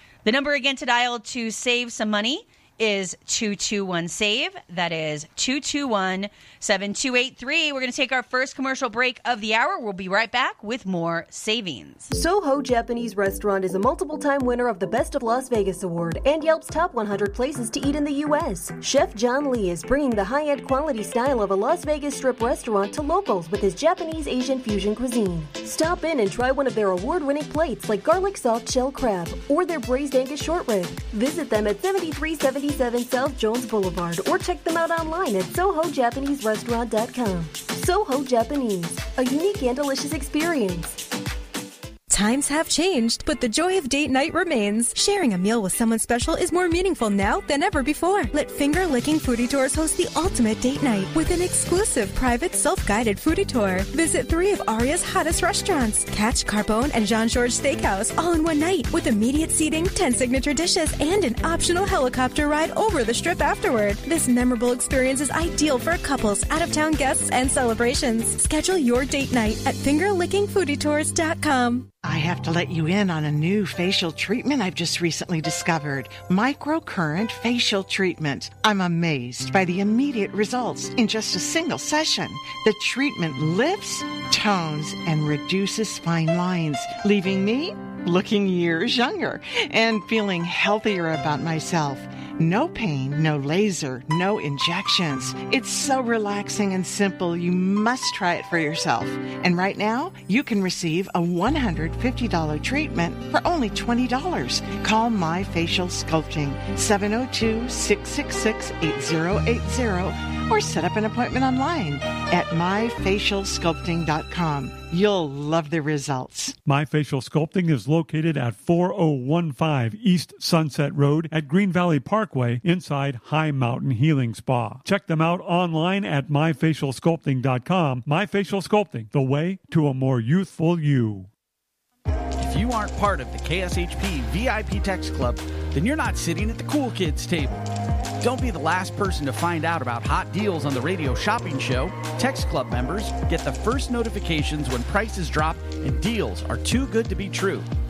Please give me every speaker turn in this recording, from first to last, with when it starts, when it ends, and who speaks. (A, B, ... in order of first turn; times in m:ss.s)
0:00.2-0:12.1 A
0:12.1-0:41.0 B
0:42.1-1:11.9 C
1:12.0-1:56.5 D
1:56.6-2:11.3 E
2:12.4-2:17.6 F
2:18.2-2:27.7 F